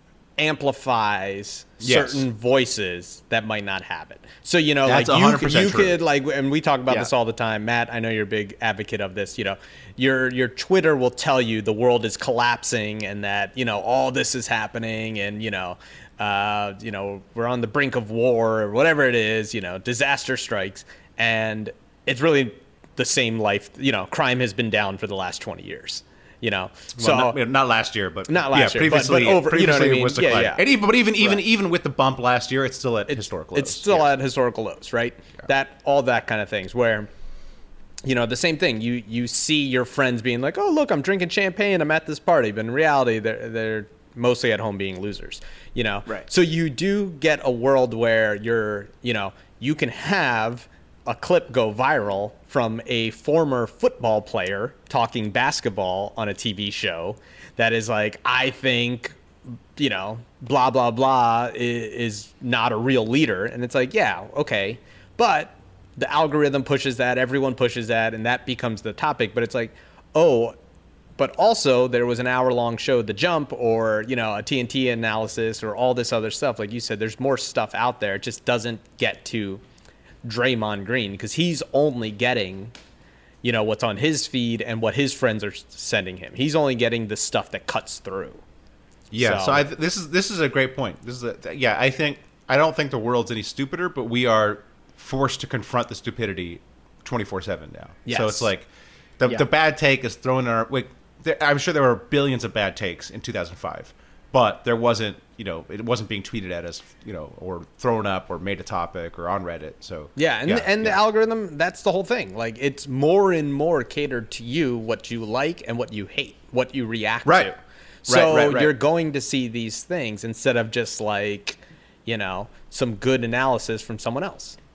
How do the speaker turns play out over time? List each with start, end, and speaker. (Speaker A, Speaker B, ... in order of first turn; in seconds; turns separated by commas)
Speaker A: 0.4-27.4, Speaker B: 1.8-2.2, Speaker B: 4.8-6.0, Speaker B: 27.0-34.1, Speaker A: 28.3-30.6, Speaker A: 33.1-37.1, Speaker A: 38.0-59.2, Speaker A: 59.8-70.6, Speaker A: 71.2-79.6, Speaker A: 80.2-82.7, Speaker A: 83.4-88.4, Speaker B: 89.1-98.7, Speaker A: 89.2-89.7, Speaker A: 98.1-98.5, Speaker B: 99.2-111.0, Speaker A: 110.2-117.5, Speaker B: 117.2-117.5, Speaker A: 118.1-124.6, Speaker B: 118.1-118.8